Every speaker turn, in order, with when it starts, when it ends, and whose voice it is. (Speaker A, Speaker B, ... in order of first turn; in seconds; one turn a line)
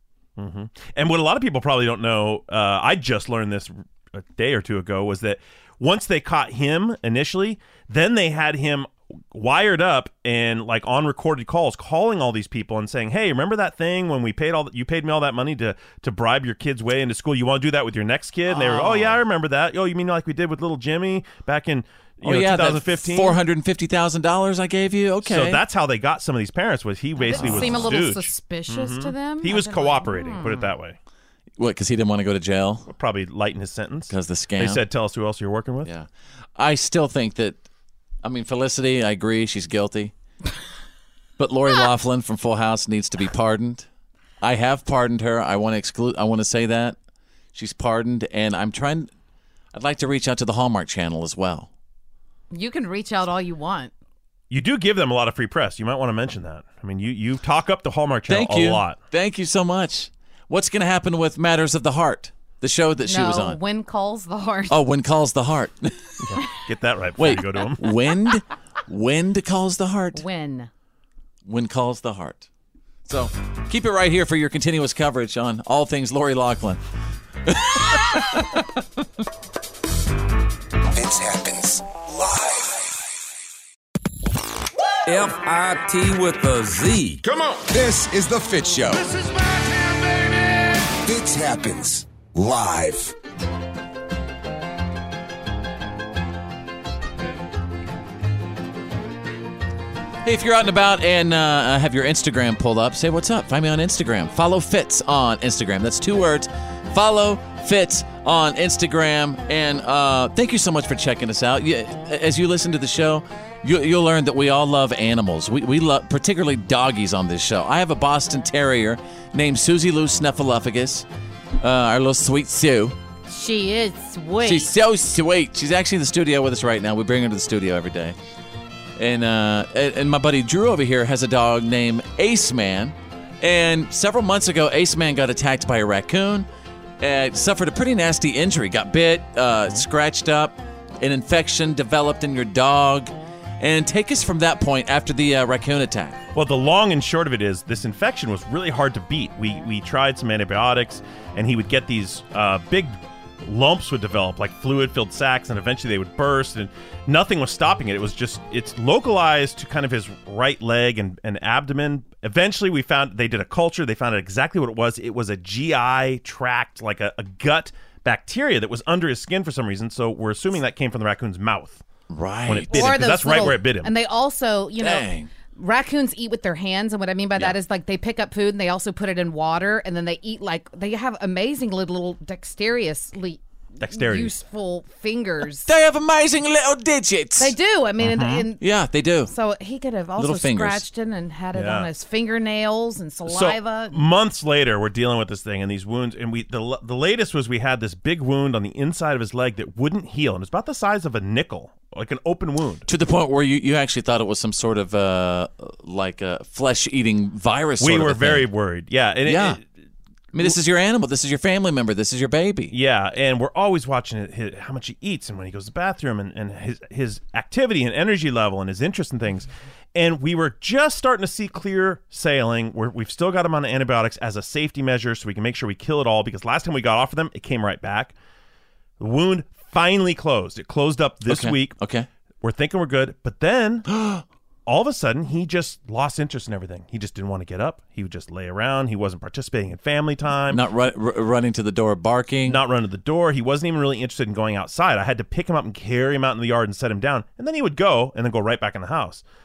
Speaker A: 0.4-23.4
Speaker B: 18.5-19.2
Speaker B: 22.2-25.6
Speaker A: 25.2-31.0
Speaker C: 27.2-30.7
Speaker B: 27.3-27.9
Speaker B: 31.6-32.9
Speaker A: 32.9-35.9
Speaker B: 34.1-34.8
Speaker B: 35.8-37.6
Speaker B: 38.2-40.1
Speaker B: 41.4-43.9
Speaker B: 44.4-47.0
Speaker B: 47.5-49.1
Speaker B: 49.7-51.7
Speaker C: 52.5-53.9
Speaker A: 54.5-59.0
Speaker B: 58.3-63.6
Speaker C: 63.1-64.8
Speaker B: 64.7-66.2
Speaker A: 66.2-67.9
Speaker B: 67.2-70.2
Speaker C: 70.1-70.7
Speaker B: 71.4-72.5
Speaker B: 73.0-76.8
Speaker B: 77.5-78.4
Speaker D: 80.9-83.0
Speaker E: 85.0-87.3
Speaker D: 87.7-89.1
Speaker D: 91.0-93.1
Speaker B: 100.2-121.0
Speaker B: 121.6-123.0
Speaker C: 123.3-124.7
Speaker B: 124.4-128.1
Speaker B: 129.0-136.5
Speaker B: 137.0-146.2
Speaker A: 146.3-171.8
Speaker B: 172.1-173.1
Speaker A: 172.5-173.9
Speaker C: 172.7-185.7
Speaker B: 174.8-175.3
Speaker A: 183.8-184.3
Speaker B: 185.6-187.5
Speaker C: 187.4-188.6
Speaker A: 188.0-188.4
Speaker B: 188.6-189.3
Speaker C: 189.3-194.0
Speaker B: 190.2-190.8
Speaker A: 191.5-191.9
Speaker A: 193.3-202.9
Speaker B: 202.9-208.5
Speaker A: 207.8-209.6
Speaker B: 209.2-209.6
Speaker B: 210.3-212.7
Speaker A: 212.7-228.1
Speaker A: 229.0-231.8
Speaker B: 231.2-232.1
Speaker A: 232.4-233.8
Speaker B: 233.9-234.2
Speaker A: 234.7-240.6
Speaker B: 240.5-242.6
Speaker A: 242.4-249.2